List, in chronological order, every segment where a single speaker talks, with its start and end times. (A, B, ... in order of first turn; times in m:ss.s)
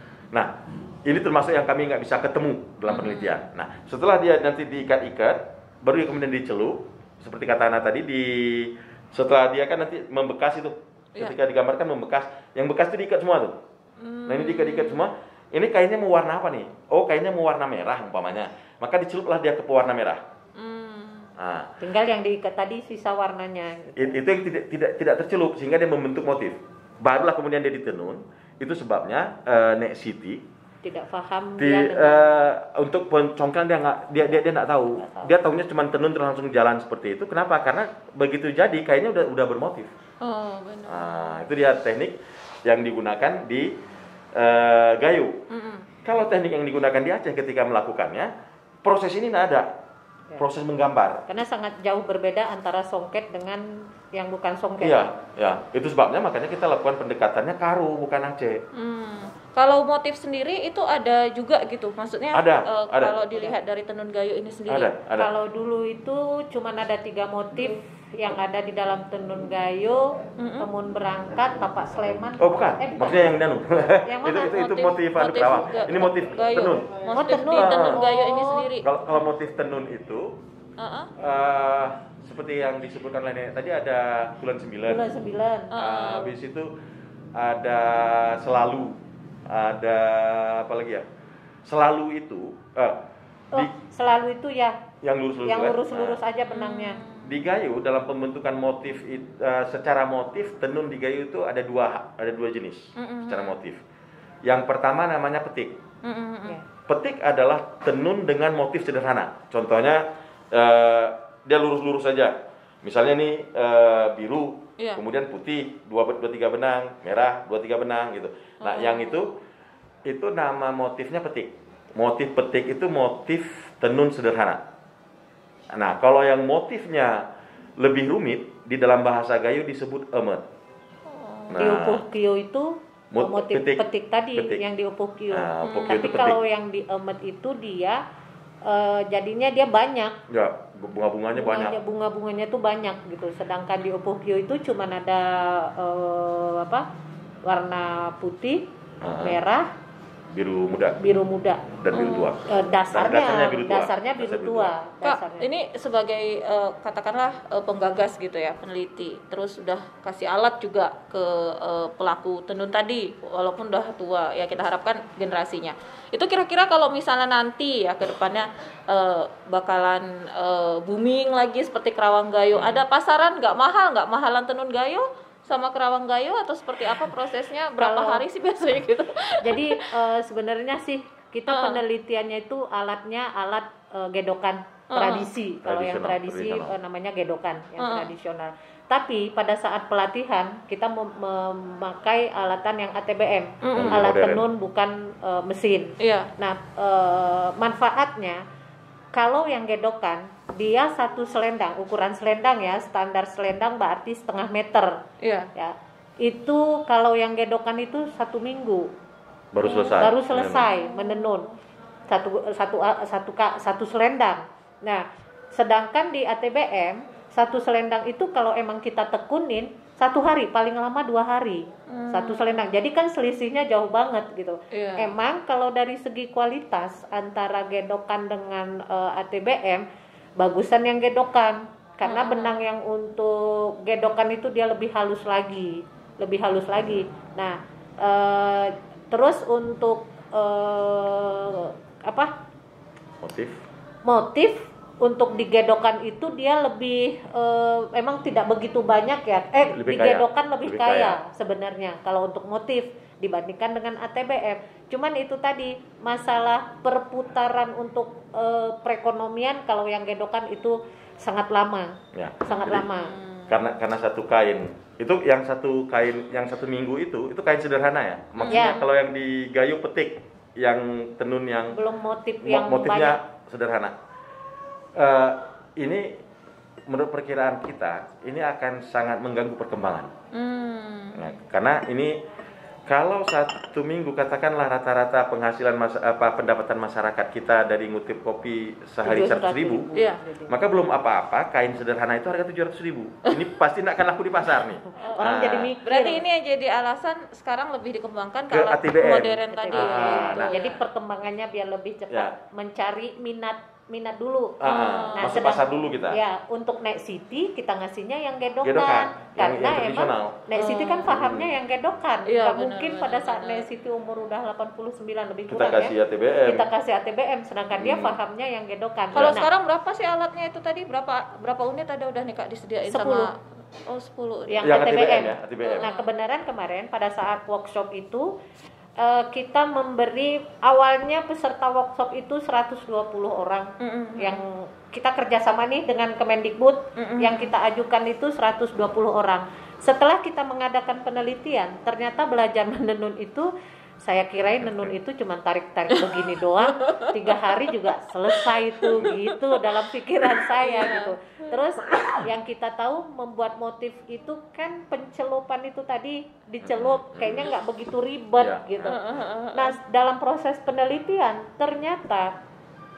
0:00.3-0:13.6 A
0:02.9-0:03.4 B
0:14.0-0:15.0 B
0:14.3-0:20.2 A
0:20.6-0:21.3 B
0:21.4-0:21.7 A
0:21.8-0:24.2 C
0:24.0-0:30.4 A
0:30.8-0:32.5 C
0:31.6-0:39.9 A
0:35.0-0:35.3 C
0:40.2-0:41.2 B
0:40.9-0:43.8 A
0:44.4-0:45.4 A
0:45.5-0:45.9 B
0:46.0-0:48.3 A
0:48.8-0:49.7 A
0:50.4-0:51.2 A
0:51.3-0:55.1 C
0:54.8-0:58.6 A
0:58.7-1:04.9 B
1:02.3-1:03.1 A
1:04.7-1:05.3 A
1:05.2-1:13.3 C
1:10.4-1:10.7 B
1:12.4-1:16.9 A
1:14.1-1:14.6 C
1:14.3-1:18.9 B
1:17.1-1:18.7 C
1:17.6-1:18.0 A
1:18.8-1:20.4 A
1:20.8-1:21.1 B
1:21.2-1:25.1 A
1:24.9-1:25.7 C
1:25.7-1:26.3 B
1:25.8-1:26.7 A
1:27.4-1:31.1 A
1:31.7-1:33.0 A
1:33.5-1:34.8 C
1:35.0-1:36.2 A
1:35.4-1:37.0 C
1:36.5-1:37.3 B
1:37.2-1:43.8 A
1:43.0-1:43.6 B
1:44.4-1:45.8 A
1:46.0-1:46.6 B
1:46.9-1:59.4 A
1:58.6-1:59.2 B
2:00.0-2:04.6 A
2:05.7-2:10.4 A
2:11.1-2:11.6 B
2:11.5-2:12.0 A
2:11.6-2:18.0 C
2:13.1-2:13.8 A
2:14.4-2:14.6 A
2:15.3-2:16.4 A
2:15.6-2:16.3 B
2:18.6-2:20.2 C
2:20.3-2:21.8 A
2:21.4-2:26.8 C
2:27.5-2:28.6 C
2:29.0-2:29.4 A
2:29.2-2:29.7 C
2:30.3-2:31.0 A
2:31.0-2:31.6 C
2:31.8-2:34.7 A
2:31.9-2:32.4 B
2:32.5-2:35.5 C
2:35.0-2:59.9 B
2:52.5-2:52.8 A
2:57.8-2:58.2 C
2:59.4-3:18.4 C
3:01.5-3:01.8 B
3:04.9-3:05.3 B
3:05.6-3:06.7 A
3:07.8-3:08.1 B
3:13.6-3:14.0 B
3:13.7-3:14.5 A
3:16.0-3:16.3 B
3:19.1-3:25.0 C
3:25.2-3:25.5 B
3:25.6-3:28.9 C
3:29.5-3:30.7 A
3:29.7-3:30.0 B
3:29.9-3:31.5 C
3:30.8-3:31.3 B
3:32.1-3:49.9 C
3:41.9-3:42.6 B
3:44.7-3:45.1 B
3:50.4-4:02.3 C
3:52.1-3:52.5 B
4:03.2-4:03.6 A
4:04.0-4:23.1 C
4:09.8-4:11.2 A
4:22.1-4:22.9 A
4:22.6-4:23.6 B
4:23.5-4:31.8 A
4:28.4-4:28.9 B
4:28.5-4:28.8 C
4:31.7-4:33.2 C
4:32.4-4:34.0 A
4:35.0-4:36.2 A
4:36.9-4:40.1 A
4:40.3-4:41.2 B
4:41.2-4:42.2 A
4:42.9-4:49.9 A
4:49.0-4:50.5 C
4:50.0-4:50.2 B
4:50.5-4:55.8 A
4:55.0-4:56.2 C
4:55.8-5:00.8 B
4:58.5-5:00.6 A
4:59.5-5:19.5 C
5:04.6-5:06.2 A
5:04.6-5:05.4 B
5:08.6-5:10.5 A
5:10.6-5:11.1 B
5:11.1-5:11.5 A
5:12.3-5:13.7 B
5:15.5-5:16.7 A
5:17.8-5:18.2 A
5:19.1-5:19.4 A
5:19.2-5:25.1 B
5:22.9-5:23.3 C
5:24.5-5:28.3 C
5:24.6-5:25.9 A
5:25.6-5:26.1 B
5:29.0-5:43.5 C
5:33.8-5:34.4 B
5:37.0-5:37.5 B
5:44.0-5:59.0 C
5:46.7-5:47.5 B
5:50.3-5:51.1 B
5:56.6-5:57.5 A
5:58.4-5:59.0 A
5:58.9-5:59.8 B
5:59.5-6:02.3 C